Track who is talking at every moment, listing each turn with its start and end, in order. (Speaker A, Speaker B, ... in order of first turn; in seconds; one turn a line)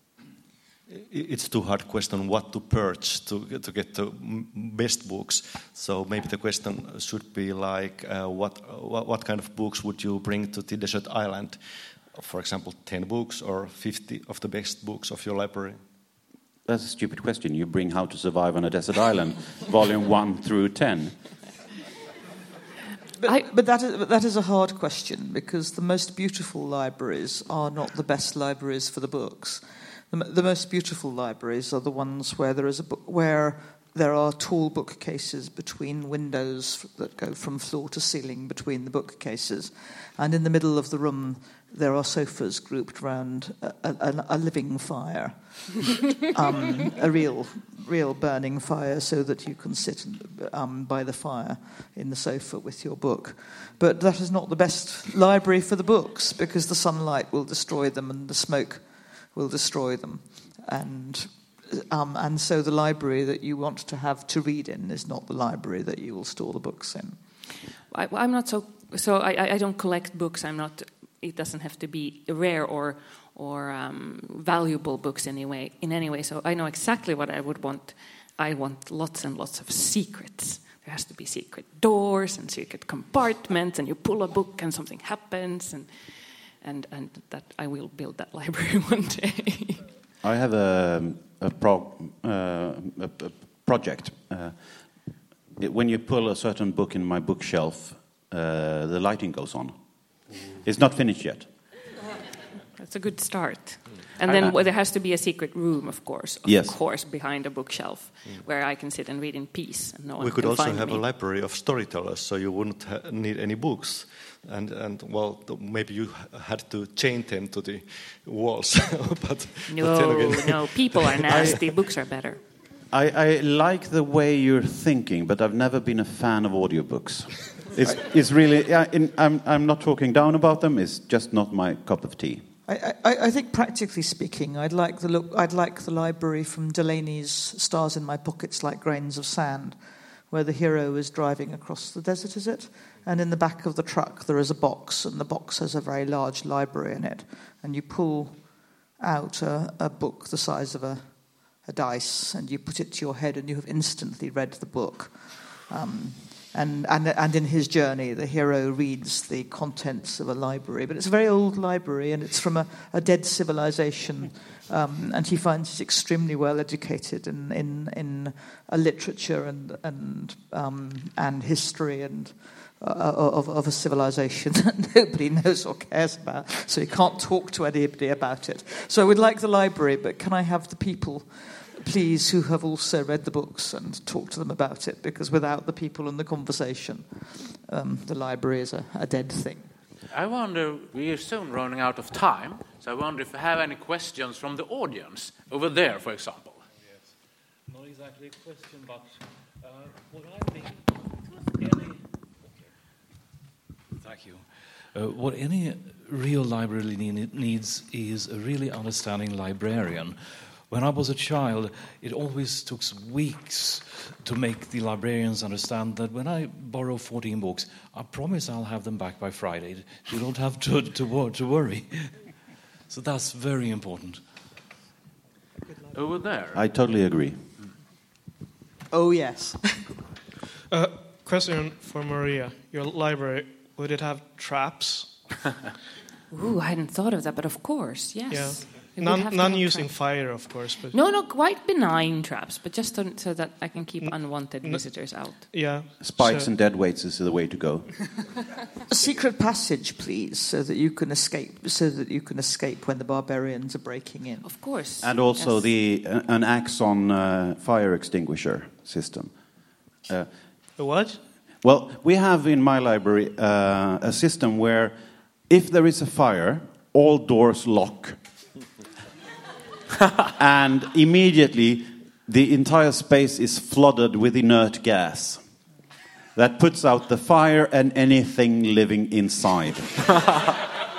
Speaker A: 0.9-15.8
Speaker B: 16.7-21.2
Speaker C: 23.2-67.2
Speaker D: 67.9-89.8
Speaker B: 90.2-94.8
Speaker B: 95.6-101.5
Speaker D: 102.8-111.0
Speaker B: 106.4-106.8
Speaker A: 110.2-121.7
Speaker D: 119.7-122.4
Speaker B: 122.9-132.5
Speaker C: 132.7-139.8
Speaker C: 140.3-189.7
Speaker E: 190.1-196.6
Speaker F: 197.8-199.0
Speaker F: 200.1-200.8
Speaker F: 203.9-224.2
Speaker E: 225.9-226.6
Speaker B: 226.5-227.4
Speaker C: 228.9-230.0
Speaker G: 230.7-235.2
Speaker D: 236.3-239.9
Speaker G: 238.3-241.0
Speaker D: 240.9-245.7
Speaker G: 244.0-246.5
Speaker B: 246.0-248.1
Speaker C: 248.9-254.5
Speaker D: 254.4-255.7
Speaker B: 255.0-259.4
Speaker G: 260.8-261.2
Speaker B: 261.6-265.0
Speaker B: 265.5-268.2
Speaker B: 270.3-275.5
Speaker B: 276.4-280.1